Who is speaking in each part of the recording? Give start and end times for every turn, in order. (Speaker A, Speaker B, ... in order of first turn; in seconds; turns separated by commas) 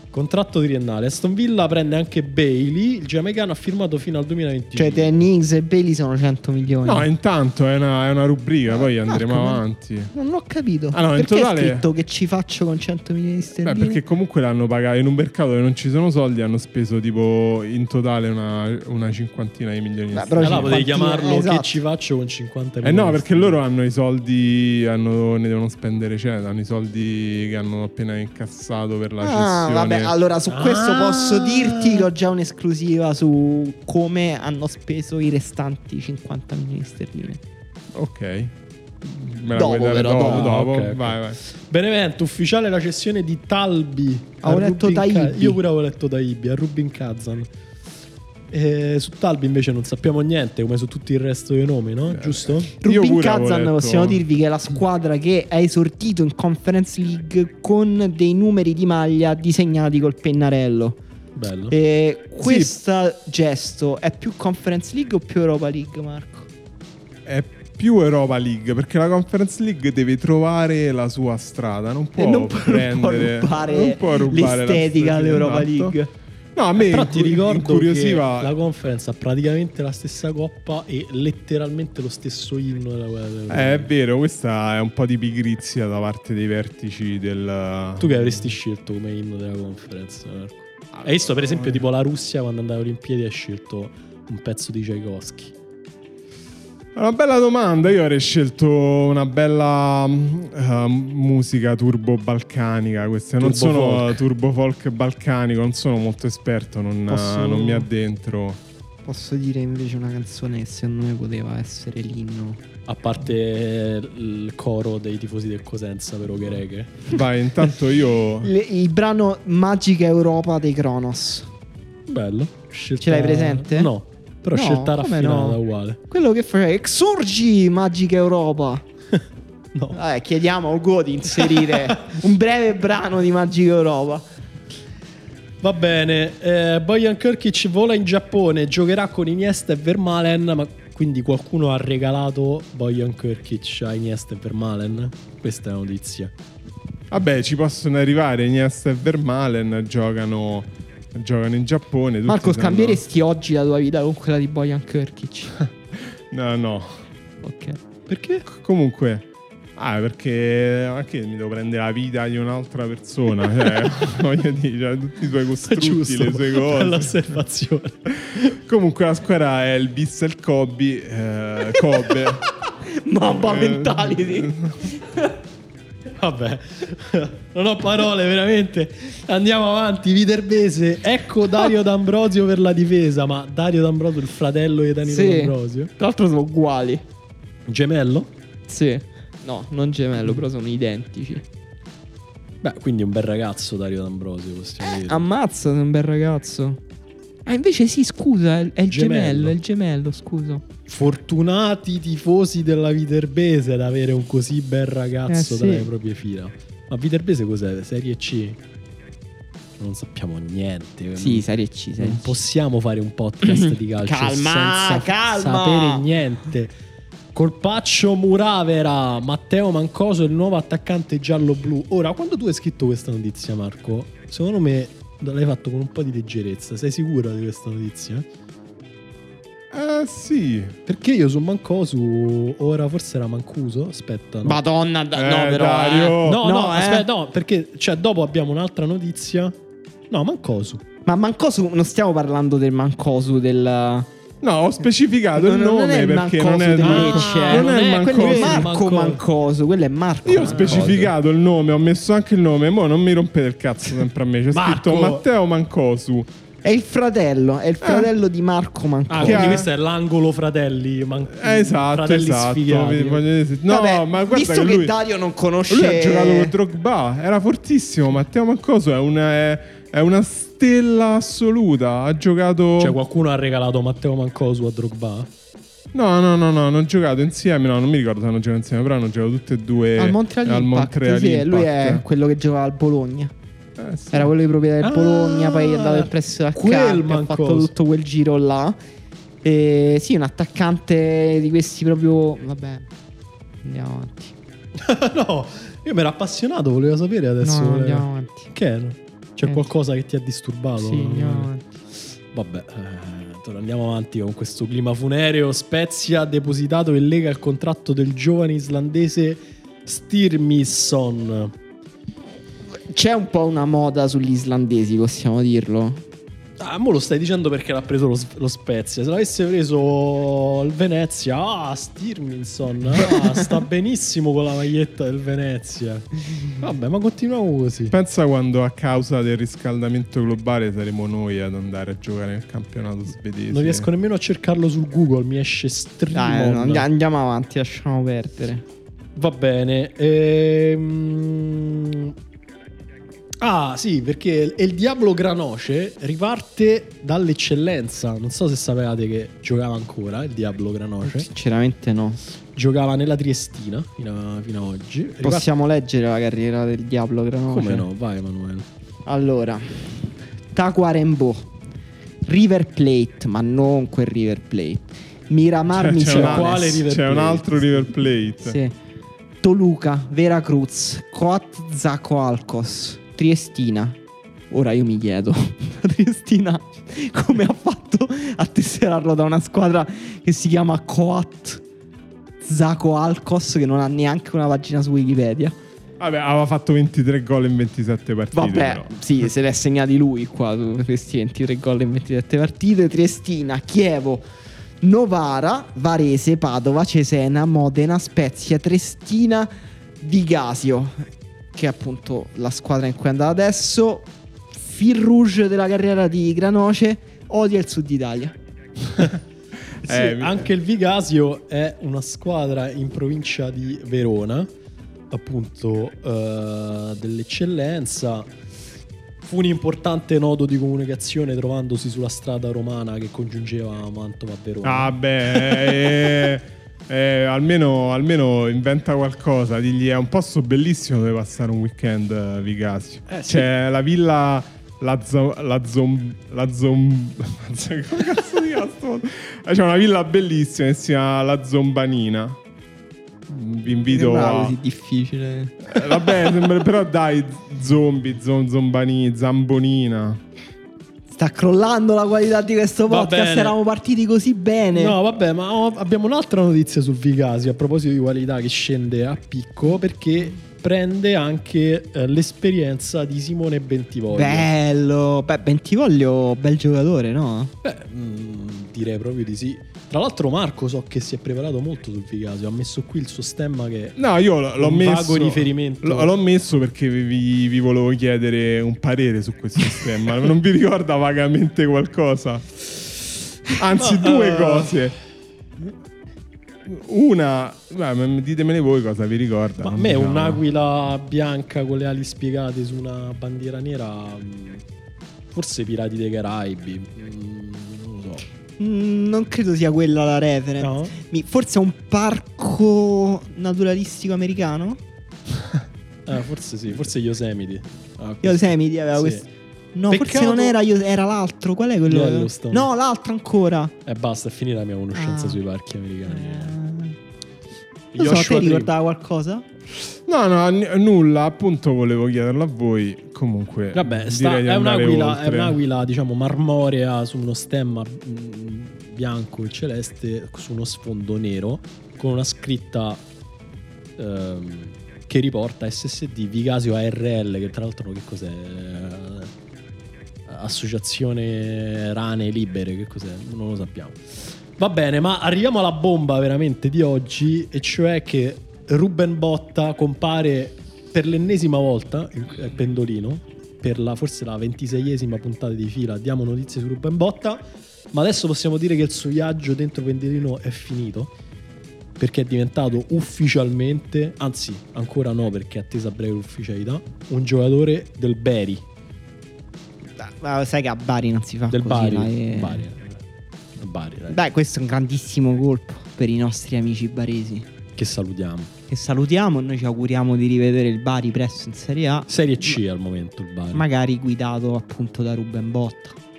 Speaker A: 0.1-5.2, Speaker B: 4.8-7.1, Speaker C: 6.8-10.1, Speaker B: 8.7-14.0, Speaker C: 10.9-11.9, Speaker C: 13.6-20.9, Speaker B: 20.1-21.8, Speaker A: 20.4-23.6, Speaker C: 22.8-30.1, Speaker B: 29.2-37.4, Speaker A: 30.5-32.1, Speaker C: 38.0-41.4, Speaker B: 39.5-40.5, Speaker A: 40.2-47.5, Speaker B: 44.4-45.6, Speaker A: 48.5-52.7, Speaker C: 52.1-54.2, Speaker B: 52.8-61.0, Speaker A: 61.4-61.8, Speaker B: 61.7-66.5, Speaker C: 62.4-62.7, Speaker C: 67.2-76.0, Speaker B: 72.2-76.1, Speaker C: 76.5-78.5, Speaker A: 76.8-83.9, Speaker C: 83.5-88.6, Speaker A: 88.0-95.5, Speaker C: 90.9-91.8, Speaker C: 97.0-108.6, Speaker A: 103.4-104.2, Speaker B: 107.1-107.9, Speaker B: 109.0-112.6, Speaker A: 112.9-117.0, Speaker C: 117.1-118.5, Speaker B: 118.4-121.5, Speaker A: 122.1-126.0, Speaker B: 123.0-123.9, Speaker B: 124.5-128.8, Speaker B: 129.9-134.2, Speaker A: 131.3-132.2, Speaker A: 135.6-146.3, Speaker C: 147.1-153.0, Speaker B: 152.3-155.6, Speaker C: 155.9-157.1, Speaker B: 157.4-157.8, Speaker A: 158.1-158.4, Speaker C: 158.5-167.2, Speaker A: 165.6-168.6, Speaker C: 168.1-172.5, Speaker B: 173.0-175.3, Speaker C: 173.3-174.9, Speaker A: 176.2-185.9, Speaker B: 185.1-187.0, Speaker A: 187.7-188.3, Speaker B: 188.7-191.4, Speaker A: 192.6-195.3, Speaker B: 194.9-196.8, Speaker B: 197.5-200.6, Speaker A: 198.9-199.6, Speaker A: 200.9-208.6, Speaker B: 205.3-205.9, Speaker A: 209.8-211.4, Speaker B: 211.2-212.4, Speaker A: 212.0-216.7, Speaker B: 213.4-216.1, Speaker A: 217.3-228.3, Speaker C: 229.7-230.8, Speaker A: 230.9-234.6, Speaker B: 234.4-237.1, Speaker C: 235.1-236.4, Speaker A: 236.2-239.6, Speaker A: 240.1-240.8, Speaker B: 241.1-244.1, Speaker C: 244.4-248.7, Speaker B: 245.4-250.9, Speaker A: 246.8-249.2, Speaker C: 250.2-256.3, Speaker A: 250.4-251.1, Speaker A: 254.5-255.2, Speaker B: 256.6-259.7, Speaker C: 257.8-258.1, Speaker A: 259.1-263.2, Speaker C: 259.2-259.7, Speaker C: 261.3-264.9, Speaker B: 263.7-266.6, Speaker C: 265.7-273.0, Speaker A: 272.8-275.3, Speaker C: 275.9-282.0, Speaker B: 280.0-283.3, Speaker C: 283.8-284.3, Speaker B: 284.1-288.8, Speaker A: 284.8-287.7, Speaker B: 289.4-292.9, Speaker B: 293.6-294.3, Speaker A: 294.8-301.5, Speaker B: 297.4-298.5, Speaker B: 300.8-301.7, Speaker A: 302.3-311.5, Speaker B: 312.9-316.0, Speaker A: 316.6-328.0, Speaker C: 327.9-333.9, Speaker A: 333.5-336.9, Speaker B: 336.1-338.6, Speaker A: 339.2-342.1, Speaker A: 343.4-351.3, Speaker B: 351.0-352.2, Speaker A: 352.5-355.5, Speaker B: 355.2-357.9, Speaker A: 357.5-358.7, Speaker B: 359.1-361.5, Speaker B: 362.2-366.7, Speaker C: 365.7-368.6, Speaker A: 366.0-367.9, Speaker B: 368.4-368.7, Speaker B: 369.4-374.0, Speaker B: 374.5-381.6, Speaker B: 382.4-385.6, Speaker C: 386.0-388.9, Speaker B: 388.3-394.2, Speaker B: 394.8-399.5, Speaker B: 400.0-408.4, Speaker C: 409.8-410.5, Speaker A: 409.8-414.5, Speaker A: 415.1-418.3, Speaker A: 419.2-426.1, Speaker C: 424.6-442.4, Speaker A: 433.1-433.5, Speaker C: 443.3-444.6, Speaker B: 443.9-445.8, Speaker C: 445.7-450.2, Speaker B: 451.1-455.0, Speaker A: 452.9-453.6, Speaker A: 454.7-464.5, Speaker B: 464.1-467.5, Speaker A: 467.6-474.0, Speaker C: 474.0-482.6, Speaker A: 474.6-476.1, Speaker C: 483.5-485.0, Speaker A: 483.8-484.8, Speaker C: 486.6-490.4, Speaker A: 489.6-494.6, Speaker A: 495.3-498.3, Speaker B: 498.6-504.8, Speaker A: 500.6-501.0, Speaker A: 506.1-509.2, Speaker B: 508.2-513.7, Speaker A: 509.9-510.6, Speaker A: 511.9-512.7, Speaker A: 513.9-516.6, Speaker B: 515.0-515.4, Speaker B: 516.1-517.0, Speaker A: 517.9-518.7, Speaker B: 518.0-519.5, Speaker C: 520.1-525.6, Speaker A: 523.7-533.0, Speaker A: 534.0-539.3, Speaker A: 540.3-561.1, Speaker A: 562.0-568.6, Speaker B: 570.0-572.7, Speaker A: 571.5-573.0, Speaker A: 573.6-574.2, Speaker B: 574.1-577.5, Speaker A: 577.8-578.5, Speaker B: 578.7-582.6, Speaker A: 582.1-583.7, Speaker B: 583.5-586.0